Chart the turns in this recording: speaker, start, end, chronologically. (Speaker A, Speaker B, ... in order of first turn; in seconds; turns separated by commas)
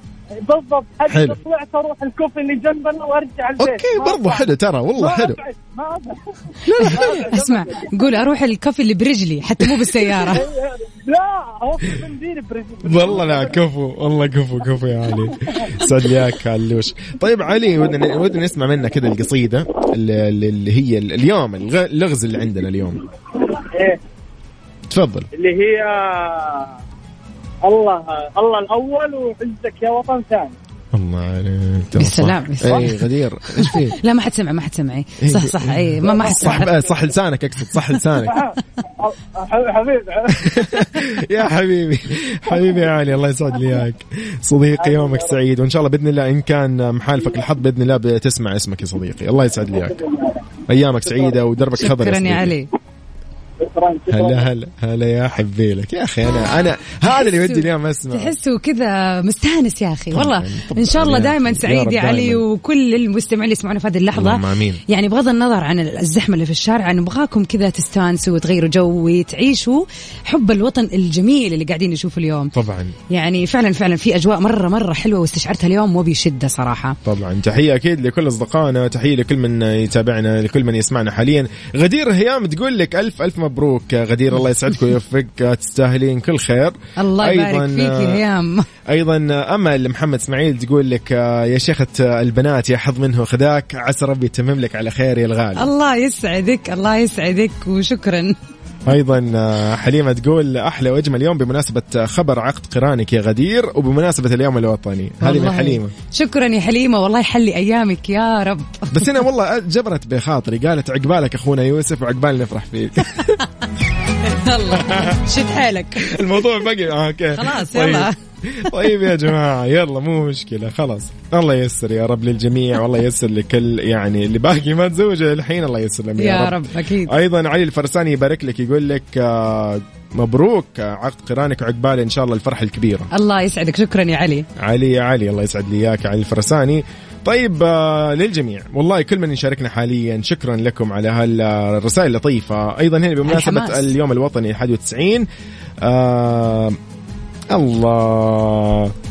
Speaker A: 0.4-7.9, Speaker B: 1.1-1.4, Speaker B: 3.6-5.4, Speaker B: 6.7-7.3, Speaker C: 6.7-10.5, Speaker A: 10.2-13.6, Speaker B: 12.8-23.0, Speaker A: 23.4-24.0, Speaker B: 24.9-25.3, Speaker A: 25.3-26.6, Speaker A: 27.7-30.5, Speaker B: 30.9-34.0, Speaker C: 32.0-33.0, Speaker C: 33.6-36.7, Speaker B: 35.2-38.4, Speaker A: 36.0-36.9, Speaker A: 38.2-40.9, Speaker B: 40.3-50.0, Speaker A: 44.8-45.4, Speaker B: 50.7-52.5, Speaker A: 51.0-51.4, Speaker C: 51.8-52.7, Speaker A: 53.6-54.5, Speaker B: 54.1-58.4, Speaker C: 57.1-72.5, Speaker B: 60.1-62.4, Speaker B: 64.1-64.8, Speaker B: 72.5-73.0, Speaker C: 73.1-77.0, Speaker B: 77.0-88.2, Speaker C: 87.0-88.7, Speaker B: 88.9-95.7, Speaker C: 95.6-98.4, Speaker B: 98.9-105.9, Speaker C: 105.2-109.1, Speaker B: 108.9-113.4, Speaker C: 114.2-116.1, Speaker B: 114.7-115.2, Speaker B: 116.0-133.1, Speaker C: 117.4-118.1, Speaker C: 126.2-127.1, Speaker C: 133.1-134.5, Speaker B: 134.6-145.3, Speaker C: 143.3-143.9, Speaker B: 145.8-146.8, Speaker B: 147.5-148.9